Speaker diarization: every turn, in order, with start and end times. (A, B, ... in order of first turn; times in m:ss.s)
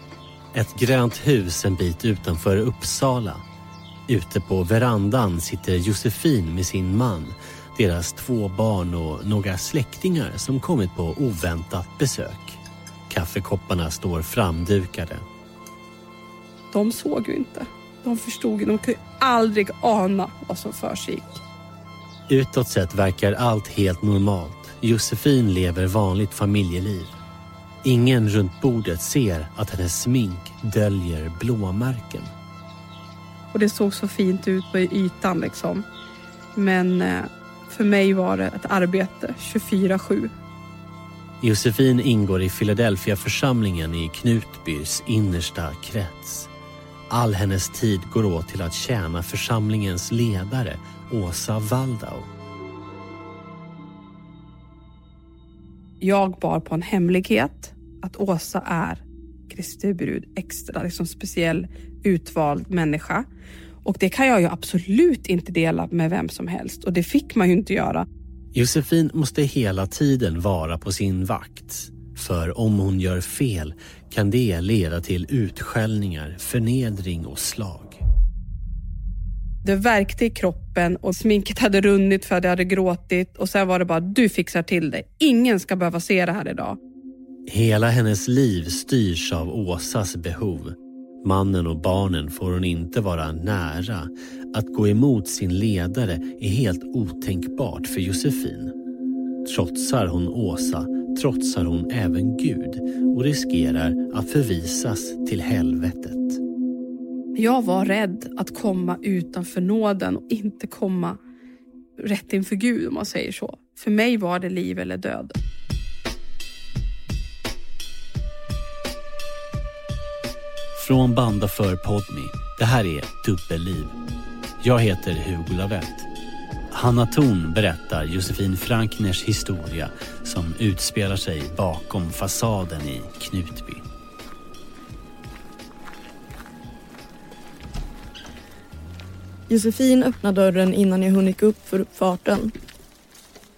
0:00.5-0:03.4 A
0:04.1-0:15.2 A
0:16.7-0:21.4 B
0:22.3-0:27.2 A
0:27.8-0:32.3 A
0:33.5-0:35.8 B
0:36.6-0:40.3 B
0:41.4-0:46.5 A
0:47.1-0:52.3 A
0:56.0-1:03.2 B
1:03.8-1:08.0 B
1:08.5-1:18.0 A
1:19.6-1:26.8 B
1:27.5-1:38.7 A
1:39.4-1:46.4 A
1:47.3-1:51.2 B
1:52.0-1:55.4 B
2:00.8-2:03.9 A
2:04.6-2:06.1 A
2:06.7-2:13.8 A
2:19.5-2:22.5 C